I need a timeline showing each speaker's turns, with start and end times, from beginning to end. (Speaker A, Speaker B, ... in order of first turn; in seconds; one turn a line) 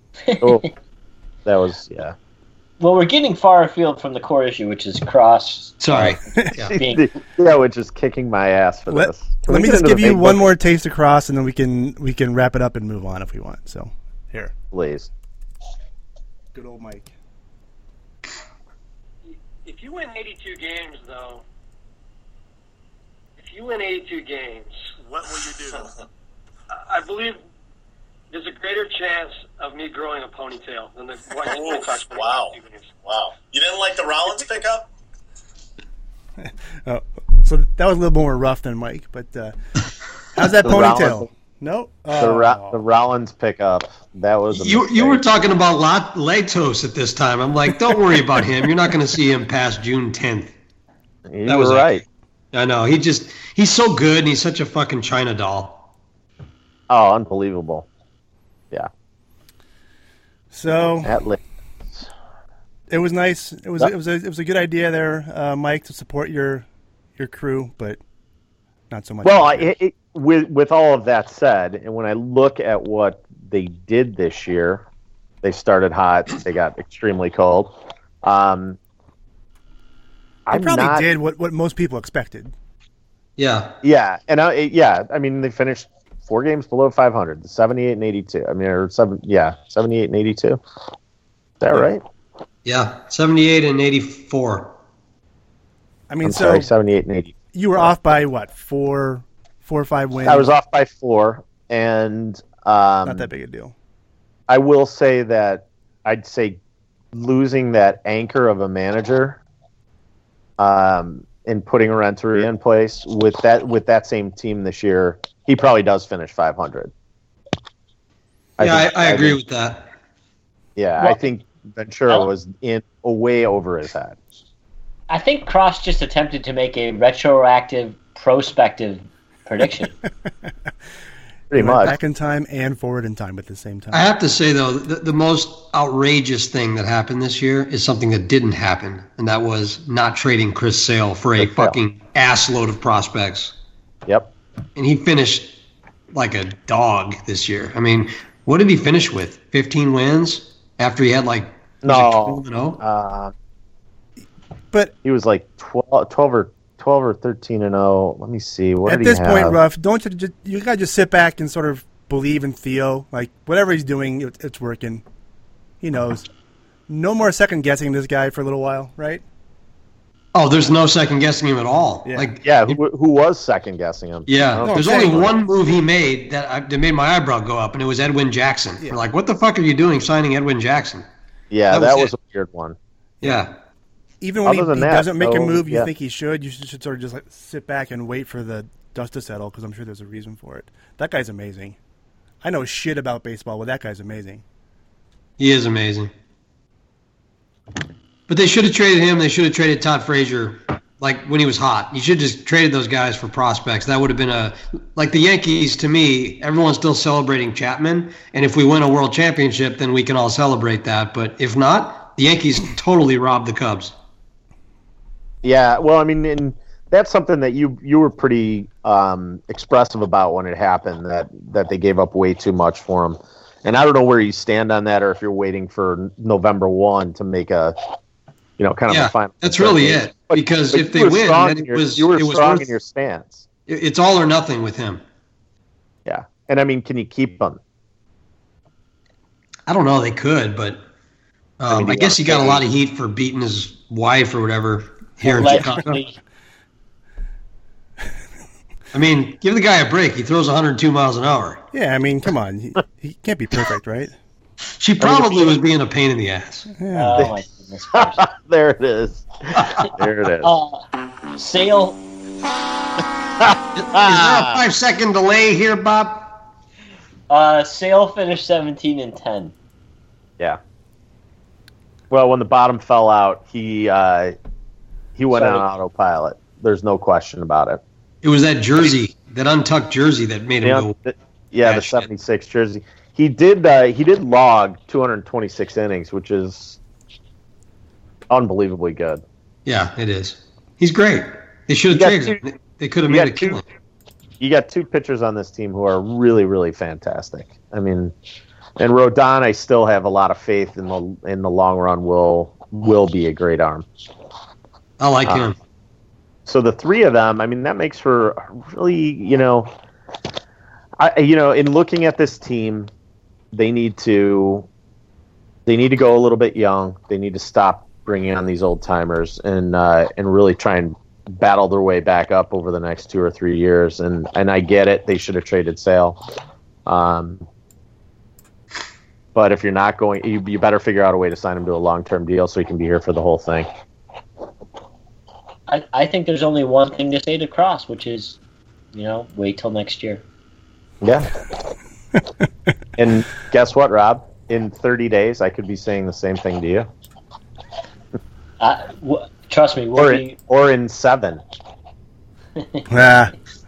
Speaker A: 0.3-0.7
Speaker B: 0.4-0.7
Speaker B: 1.4-2.1
Speaker A: 2.8-5.8
Speaker C: 5.8-6.8
Speaker B: 6.7-10.5
Speaker A: 6.8-7.0
Speaker D: 8.9-14.5
Speaker B: 14.7-15.1
Speaker D: 16.5-17.1
Speaker E: 19.6-21.4
Speaker E: 23.4-24.8
Speaker D: 25.1-25.9
Speaker E: 26.7-27.4
Speaker E: 28.3-32.9
Speaker F: 31.4-34.9
Speaker D: 36.4-39.5
Speaker D: 40.4-42.8
Speaker B: 40.6-41.3
Speaker B: 42.1-45.2
Speaker C: 44.5-50.5
Speaker B: 51.3-52.0
Speaker C: 51.5-51.9
Speaker C: 52.5-55.8
Speaker B: 56.9-57.9
Speaker D: 60.5-61.1
Speaker B: 61.0-61.4
Speaker D: 62.9-66.7
Speaker D: 67.2-68.0
Speaker D: 68.9-69.7
Speaker B: 69.2-74.8
Speaker B: 75.4-78.8
Speaker B: 80.5-81.1
Speaker D: 80.5-82.5
Speaker C: 83.4-83.7
Speaker B: 83.8-90.6
Speaker B: 91.6-92.0
Speaker C: 92.6-94.7
Speaker D: 96.1-96.7
Speaker B: 96.2-97.9
Speaker D: 97.5-100.5
Speaker B: 100.2-103.3
Speaker D: 103.0-103.7
Speaker B: 104.5-106.6
Speaker B: 107.1-109.4
Speaker B: 110.6-116.9
Speaker B: 118.6-119.4
Speaker C: 118.6-119.9
Speaker B: 120.8-124.2
Speaker A: 125.1-129.9
Speaker B: 131.5-132.0
Speaker D: 131.5-134.1
Speaker C: 133.9-143.5
Speaker B: 141.4-141.8
Speaker C: 144.8-145.5
Speaker C: 146.1-152.8
Speaker B: 151.8-153.3
Speaker B: 155.0-159.6
Speaker D: 158.8-165.0
Speaker D: 165.8-166.2
Speaker D: 166.9-169.2
Speaker C: 170.3-172.8
Speaker D: 172.1-172.3
Speaker B: 172.4-175.3
Speaker C: 174.3-181.1
Speaker D: 174.6-175.3
Speaker B: 181.5-182.8
Speaker C: 181.7-182.1
Speaker C: 183.2-183.5
Speaker D: 184.2-191.8
Speaker B: 184.4-185.9
Speaker D: 192.4-194.4
Speaker C: 195.4-196.1
Speaker C: 198.3-213.9
Speaker B: 215.4-227.8
Speaker B: 228.6-233.4
Speaker C: 228.9-232.7
Speaker C: 233.7-235.0
Speaker B: 236.1-237.6
Speaker C: 239.7-240.8
Speaker C: 241.6-246.0
Speaker B: 241.7-242.6
Speaker A: 245.2-246.2
Speaker C: 248.9-251.6
Speaker D: 251.7-254.1
Speaker C: 254.8-256.7
Speaker B: 255.0-255.6
Speaker D: 256.8-257.3
Speaker A: 256.9-258.3
Speaker B: 257.9-260.5
Speaker C: 259.6-259.9
Speaker A: 260.4-260.8
Speaker A: 261.3-262.0
Speaker B: 263.4-264.6
Speaker C: 263.8-266.3
Speaker A: 267.3-269.5
Speaker B: 272.1-274.4
Speaker B: 275.1-277.8
Speaker A: 275.3-275.6
Speaker C: 278.2-280.9
Speaker B: 280.6-286.8
Speaker C: 281.6-282.1
Speaker B: 288.3-289.2
Speaker C: 289.6-293.6
Speaker B: 291.9-292.4
Speaker B: 293.1-293.6
Speaker B: 294.4-298.1
Speaker B: 298.8-303.9
Speaker C: 305.0-305.6
Speaker B: 306.4-309.7
Speaker B: 311.0-312.9
Speaker B: 313.5-314.7
Speaker B: 315.6-326.2
Speaker B: 326.9-327.4
Speaker B: 329.3-333.7
Speaker A: 335.7-338.4
Speaker A: 338.9-340.2
Speaker B: 341.0-341.3
Speaker B: 343.0-346.9
Speaker A: 348.6-350.4
Speaker B: 349.9-351.4
Speaker A: 352.6-352.8
Speaker D: 352.9-353.3